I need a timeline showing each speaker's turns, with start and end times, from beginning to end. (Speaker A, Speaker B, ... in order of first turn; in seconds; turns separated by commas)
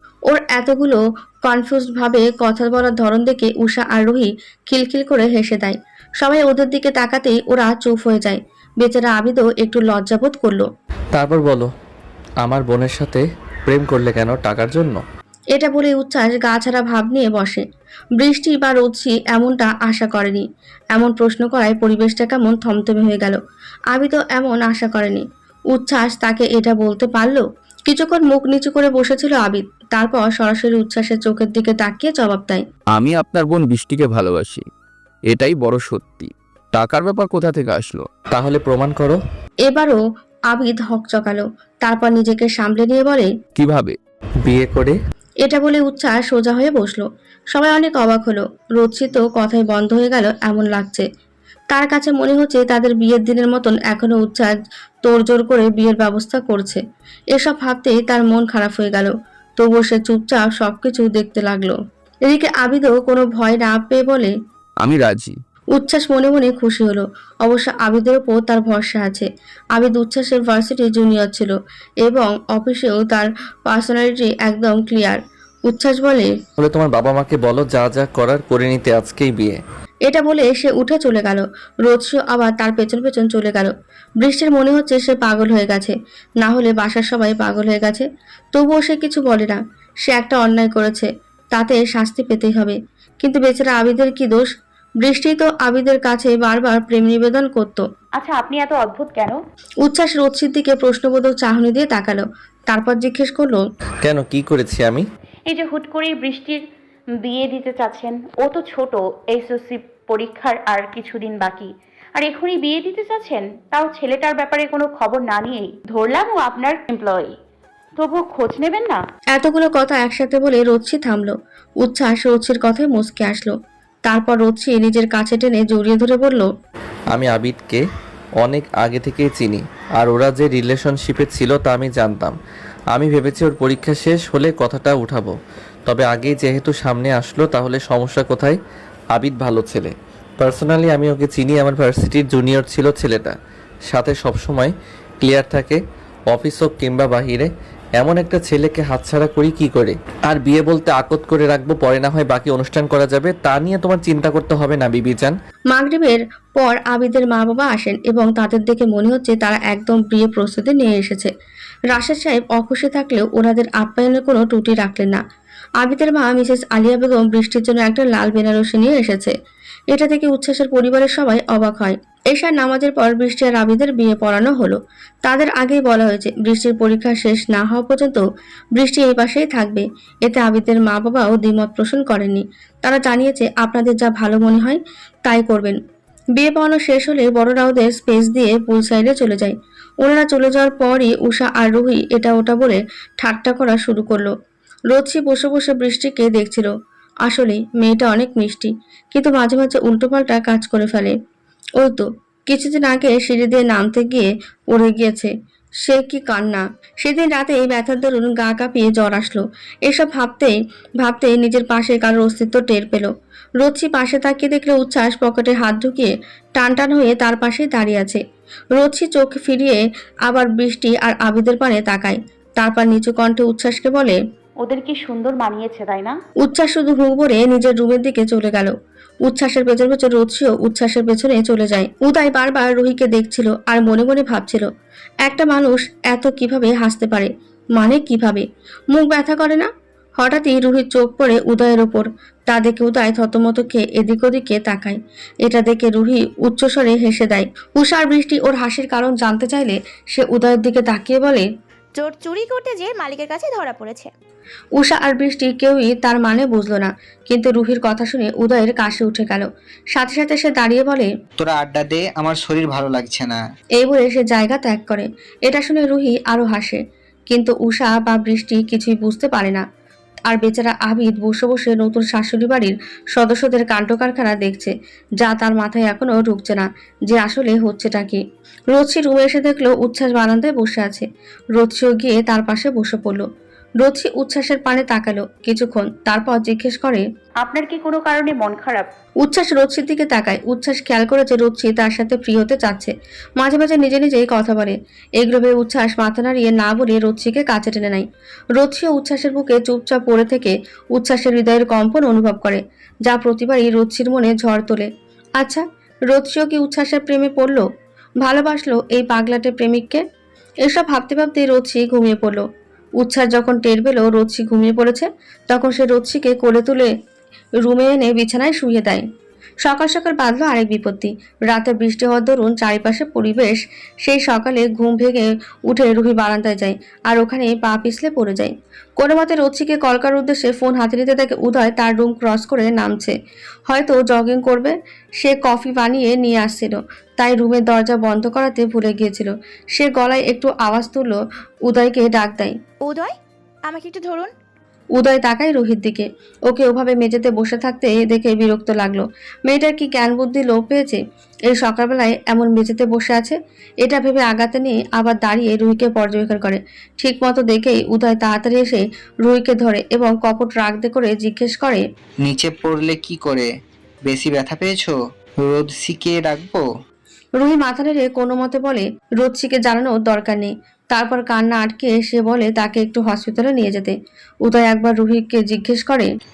Speaker A: 0.3-10.7, Speaker B: 11.1-11.7, Speaker B: 12.4-15.0, Speaker A: 15.5-17.6, Speaker A: 18.2-23.4, Speaker A: 23.9-32.6, Speaker C: 32.9-34.6, Speaker C: 35.3-38.1, Speaker B: 38.3-39.2, Speaker A: 39.7-40.0, Speaker A: 40.5-43.3, Speaker C: 43.5-44.0, Speaker B: 44.4-45.0, Speaker A: 45.4-51.0, Speaker A: 51.7-54.5, Speaker A: 55.1-56.8, Speaker A: 57.3-61.8, Speaker A: 62.3-64.3, Speaker C: 64.8-65.3, Speaker A: 65.8-71.5, Speaker A: 72.0-76.3, Speaker B: 76.6-79.6, Speaker A: 80.1-97.8, Speaker D: 98.2-99.4, Speaker A: 99.8-103.6, Speaker B: 104.0-105.0, Speaker D: 105.5-106.6, Speaker D: 107.2-117.3, Speaker D: 118.0-119.0, Speaker A: 119.3-123.5, Speaker A: 124.0-126.5, Speaker B: 127.1-127.8, Speaker B: 128.4-132.3, Speaker B: 132.9-138.6, Speaker B: 139.1-143.4, Speaker B: 143.9-155.3, Speaker A: 155.7-161.3, Speaker A: 161.9-165.2, Speaker A: 165.8-169.3, Speaker A: 169.9-178.2, Speaker A: 178.8-185.8, Speaker A: 186.4-194.3, Speaker A: 194.9-196.7, Speaker A: 197.2-201.2, Speaker A: 201.8-213.1, Speaker A: 213.6-218.2, Speaker A: 218.7-224.2, Speaker D: 224.6-226.2, Speaker A: 226.4-228.7, Speaker A: 229.2-234.7, Speaker A: 235.2-251.5, Speaker E: 252.0-254.1, Speaker A: 254.8-261.1, Speaker F: 261.4-263.4, Speaker A: 263.8-269.6, Speaker A: 270.3-278.2, Speaker A: 278.7-283.2, Speaker A: 283.8-287.0, Speaker D: 287.4-288.9, Speaker A: 289.2-298.1, Speaker A: 298.6-307.6, Speaker A: 308.2-310.0, Speaker A: 310.6-312.4, Speaker A: 313.0-316.9, Speaker A: 317.6-319.0, Speaker A: 319.6-333.1, Speaker A: 333.7-342.5, Speaker E: 342.8-343.1, Speaker E: 343.6-344.3, Speaker A: 345.0-361.8, Speaker F: 362.2-363.5, Speaker F: 364.1-366.6, Speaker A: 367.4-376.1